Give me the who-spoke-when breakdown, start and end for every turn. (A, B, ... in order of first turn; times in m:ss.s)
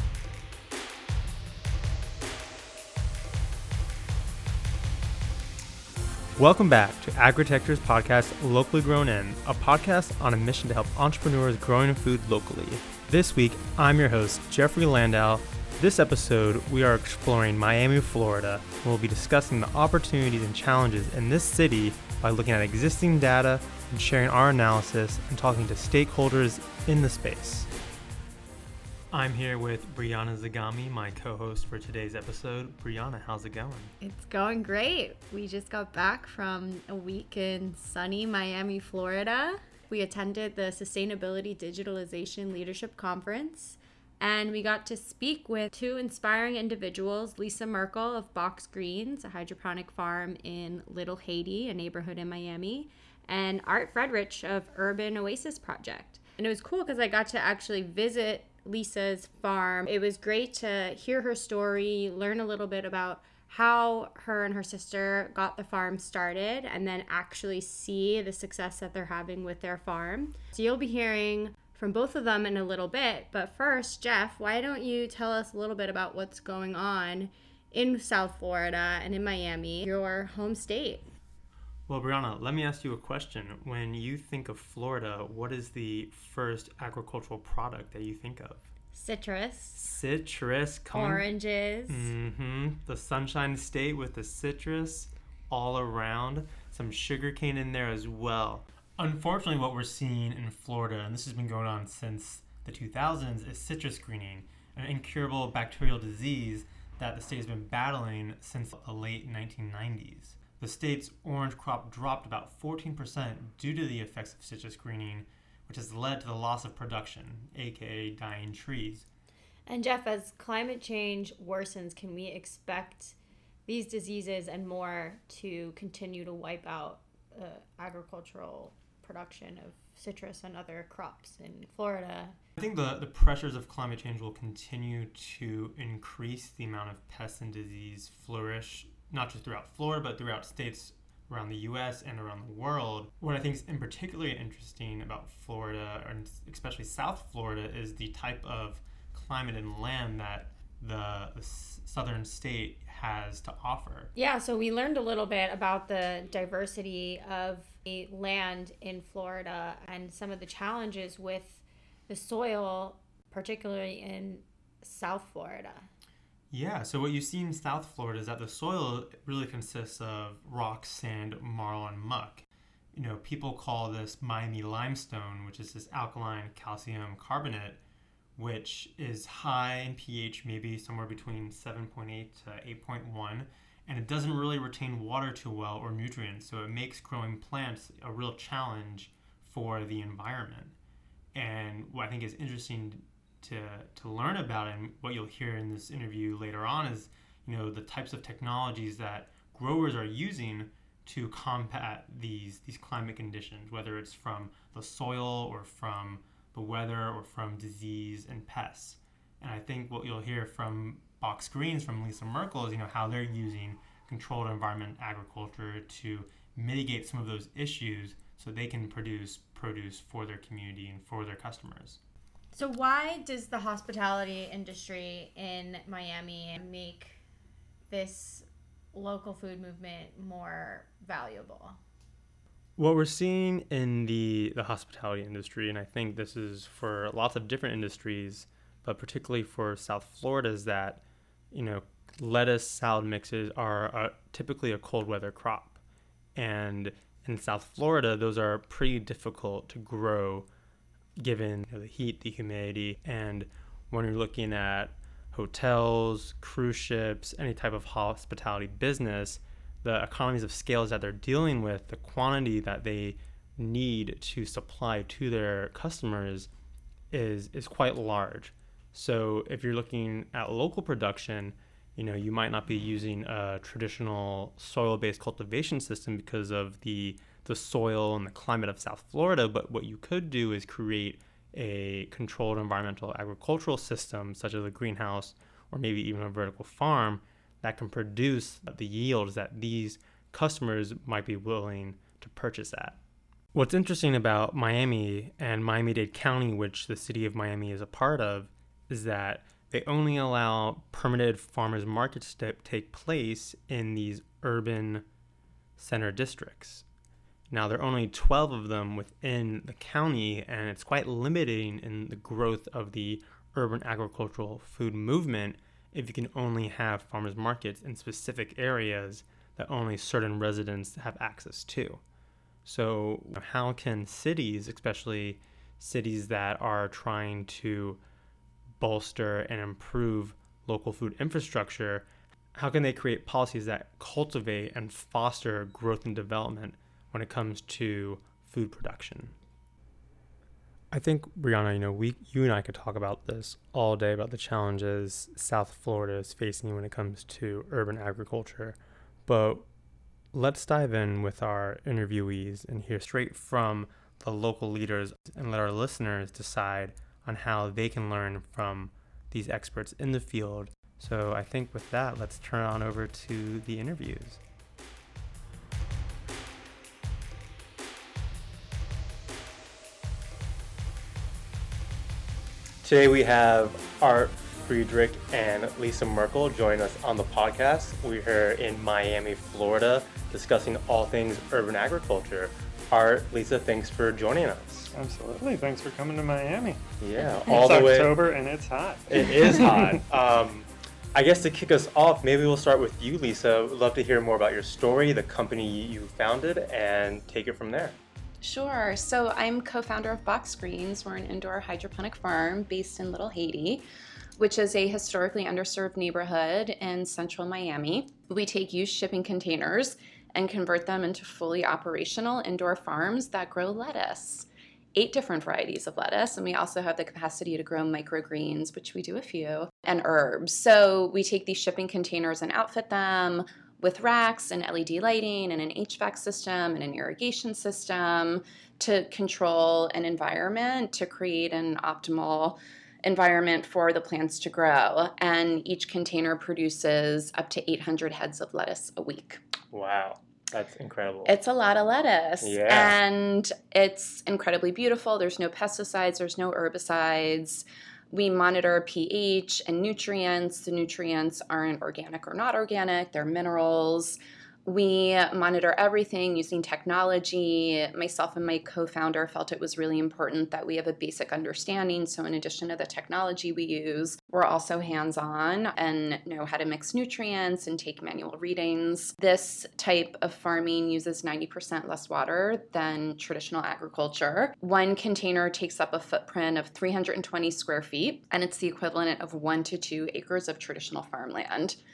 0:06.4-0:27.7 A
0:29.1-0:33.9 A
0:34.0-1:21.0 B
1:21.9-1:28.7 A
1:28.9-1:29.9 B
1:29.8-1:31.2 A
1:30.9-1:32.1 B
1:31.9-1:59.0 A
1:59.6-2:03.1 B
2:03.6-2:12.4 B
2:12.6-2:34.1 A
2:34.1-2:45.8 B
2:46.5-2:57.8 A
2:58.4-3:10.7 A
3:11.3-3:42.0 A
3:42.5-3:47.2 B
3:47.9-3:51.8 B
3:52.8-4:05.8 A
4:06.4-4:10.5 A
4:11.2-4:26.5 A
4:27.1-4:53.0 A
4:53.5-5:05.0 A
5:05.8-5:06.8 A
5:07.5-5:22.0 A
5:22.6-5:28.0 A
5:28.8-5:39.3 A
5:40.9-5:49.6 A
5:50.3-6:04.4 A
6:12.8-6:24.9 A
6:24.9-6:26.8 C
6:27.0-6:28.2 A
6:27.4-6:30.0 C
6:29.1-6:38.0 A
6:38.4-6:43.8 D
6:44.4-7:19.4 D
7:19.7-7:21.3 A
7:21.2-8:01.8 D
7:22.4-7:22.9 A